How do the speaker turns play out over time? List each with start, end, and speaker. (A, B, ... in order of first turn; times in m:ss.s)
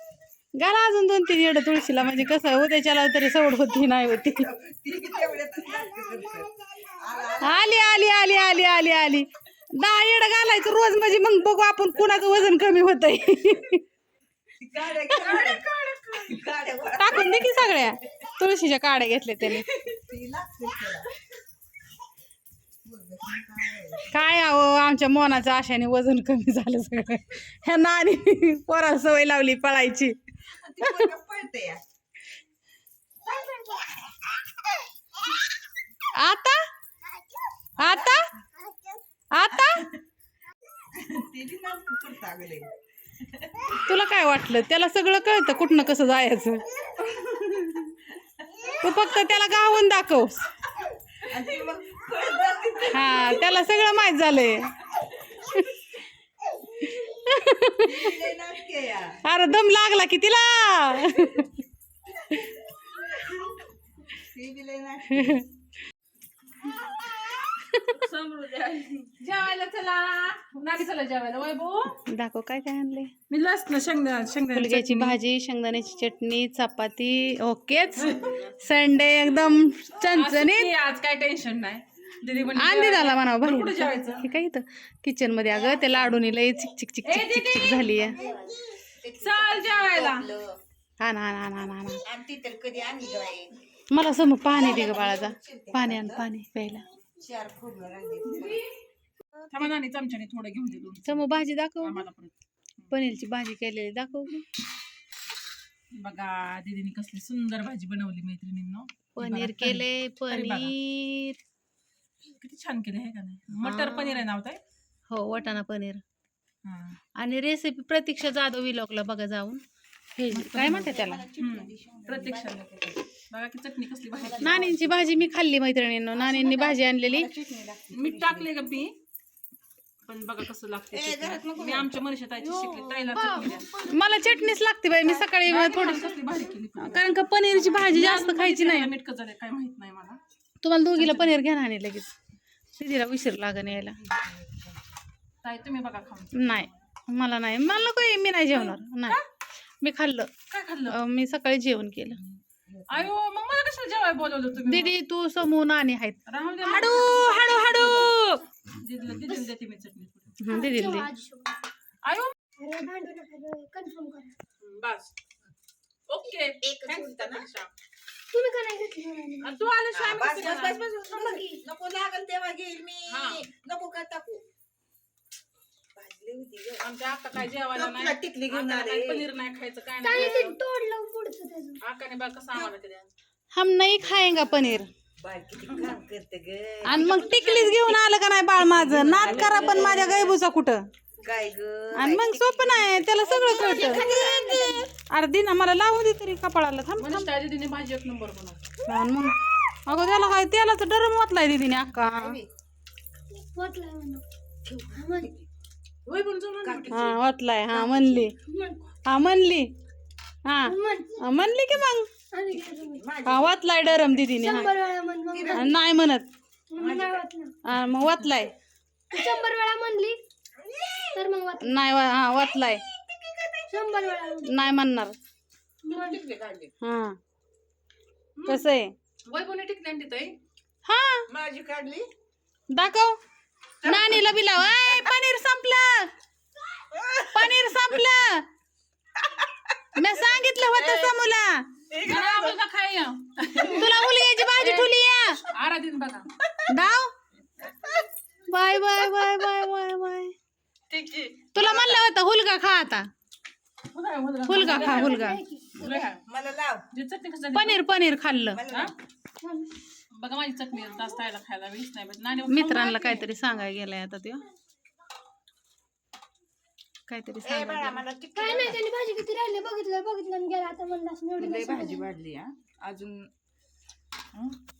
0:00.6-0:04.5 A
0:04.4-0:07.7 B
0:07.4-0:13.8 A
0:14.6-0:15.6 B
0:15.1-0:16.4 C
0:16.3-0:17.9 B
0:17.0-0:19.7 A
0:19.9-0:21.1 B
0:22.8-0:24.2 B
0:24.1-0:30.1 A
0:30.5-0:31.8 B
0:36.1-0:36.6 A
0:37.8-0:38.2 A
0:37.8-0:38.6 B
0:39.3-0:39.8 A
0:40.9-0:42.7 B
0:43.4-0:43.7 B
0:43.8-0:47.9 A
0:48.8-0:50.5 A
0:51.2-0:53.5 B
0:52.9-0:54.7 A
0:56.9-0:58.1 A
0:57.8-0:59.2 B
0:59.2-1:01.5 A
1:04.1-1:05.4 B
1:07.9-1:11.9 C
1:12.1-1:13.1 A
1:13.3-1:15.2 C
1:14.5-1:20.7 A
1:18.0-1:18.4 C
1:20.0-1:24.2 C
1:22.6-1:28.2 A
1:25.5-1:26.2 B
1:27.0-1:28.2 C
1:28.0-1:30.6 B
1:29.1-1:30.3 C
1:31.0-1:32.0 A
1:32.0-1:33.6 B
1:33.9-1:36.8 A
1:34.4-1:36.2 B
1:37.2-1:38.6 B
1:38.3-1:38.6 C
1:39.5-1:41.3 C
1:41.1-1:42.0 A
1:41.8-1:42.3 C
1:42.9-1:44.4 A
1:46.0-1:50.7 C
1:49.2-1:51.4 A
1:52.3-1:54.6 C
1:53.6-1:54.2 A
1:55.1-1:56.0 A
1:56.6-1:57.0 C
1:57.2-1:59.6 A
2:00.2-2:01.3 A
2:00.3-2:04.8 C
2:00.7-2:03.0 B
2:04.2-2:05.2 B
2:04.4-2:07.3 A
2:06.1-2:08.5 B
2:07.9-2:09.0 C
2:10.0-2:13.7 C
2:10.9-2:11.9 B
2:12.6-2:14.5 B
2:13.2-2:16.1 A
2:15.4-2:20.2 C
2:16.8-2:18.9 A
2:20.6-2:22.1 A
2:21.0-2:21.4 C
2:22.8-2:24.0 A
2:24.0-2:24.8 B
2:25.4-2:26.7 C
2:26.3-2:29.2 A
2:28.5-2:29.2 C
2:29.8-2:30.3 A
2:30.5-2:31.0 C
2:30.9-2:32.2 A
2:32.7-2:33.1 B
2:32.9-2:34.9 C
2:34.6-2:38.4 A
2:36.2-2:38.1 C
2:38.8-2:40.4 C
2:40.4-2:41.1 A
2:40.5-2:41.6 D
2:42.0-2:42.3 C
2:42.6-2:44.3 D
2:44.6-2:45.1 C
2:46.1-2:47.7 C
2:46.6-2:47.5 B
2:48.3-2:49.6 D
2:49.4-2:50.9 C
2:49.9-2:54.4 B
2:51.1-2:51.6 D
2:53.1-2:53.4 C
2:55.9-2:56.8 B
2:56.8-3:00.6 C
2:57.7-2:59.3 B
3:00.0-3:01.8 D
3:01.8-3:03.1 C
3:03.5-3:04.9 A
3:04.1-3:08.0 B
3:06.8-3:10.8 A
3:08.7-3:10.4 C
3:09.0-3:10.3 B
3:11.2-3:14.9 B
3:11.9-3:14.2 A
3:13.7-3:14.9 D
3:15.0-3:17.3 A
3:17.0-3:18.6 C
3:18.9-3:22.4 A
3:22.1-3:22.5 B
3:23.3-3:24.2 D
3:24.6-3:25.5 B
3:24.9-3:25.3 D
3:26.0-3:27.1 C
3:26.6-3:27.2 B
3:26.9-3:28.3 A
3:27.7-3:28.3 B
3:28.4-3:28.8 D
3:29.1-3:29.7 A
3:30.4-3:32.1 A
3:30.6-3:31.4 D
3:32.3-3:33.0 D
3:32.5-3:34.1 B
3:33.2-3:34.7 A
3:34.4-3:35.8 D
3:35.3-3:35.8 B
3:35.5-3:36.3 A
3:36.7-3:37.5 D
3:36.8-3:37.2 B
3:37.6-3:38.5 A
3:39.1-3:40.2 D
3:40.6-3:41.2 B
3:41.1-3:41.7 D
3:41.6-3:42.8 A
3:42.9-3:44.0 B
3:43.7-3:44.5 D
3:44.4-3:45.1 A
3:45.8-3:46.2 D
3:45.9-3:46.7 B
3:46.8-3:47.2 A
3:48.4-3:48.6 C
3:48.5-3:48.9 A
3:49.2-3:50.4 C
3:50.8-3:51.2 A
3:51.3-3:52.1 B
3:52.7-3:53.2 A
3:53.8-3:55.1 B
3:53.8-3:56.1 A
3:56.8-3:57.6 B
3:57.3-3:58.4 A
4:00.0-4:01.6 A
4:00.7-4:01.1 B
4:01.9-4:02.6 B
4:02.0-4:04.9 C
4:03.6-4:05.4 A
4:05.5-4:06.3 C
4:06.7-4:07.1 A
4:07.6-4:08.0 B
4:08.5-4:10.3 A
4:10.9-4:12.0 C
4:11.5-4:13.1 A
4:13.9-4:15.2 C
4:14.5-4:15.4 A
4:14.6-4:16.0 D
4:15.8-4:16.2 C
4:16.2-4:16.8 B
4:16.9-4:17.8 C
4:17.5-4:18.6 A
4:18.5-4:18.9 B
4:18.7-4:18.9 C
4:19.4-4:19.7 D
4:20.1-4:23.3 C
4:22.5-4:24.4 A
4:27.1-4:28.0 A
4:27.4-4:28.8 B
4:28.3-4:32.1 D
4:31.4-4:33.3 B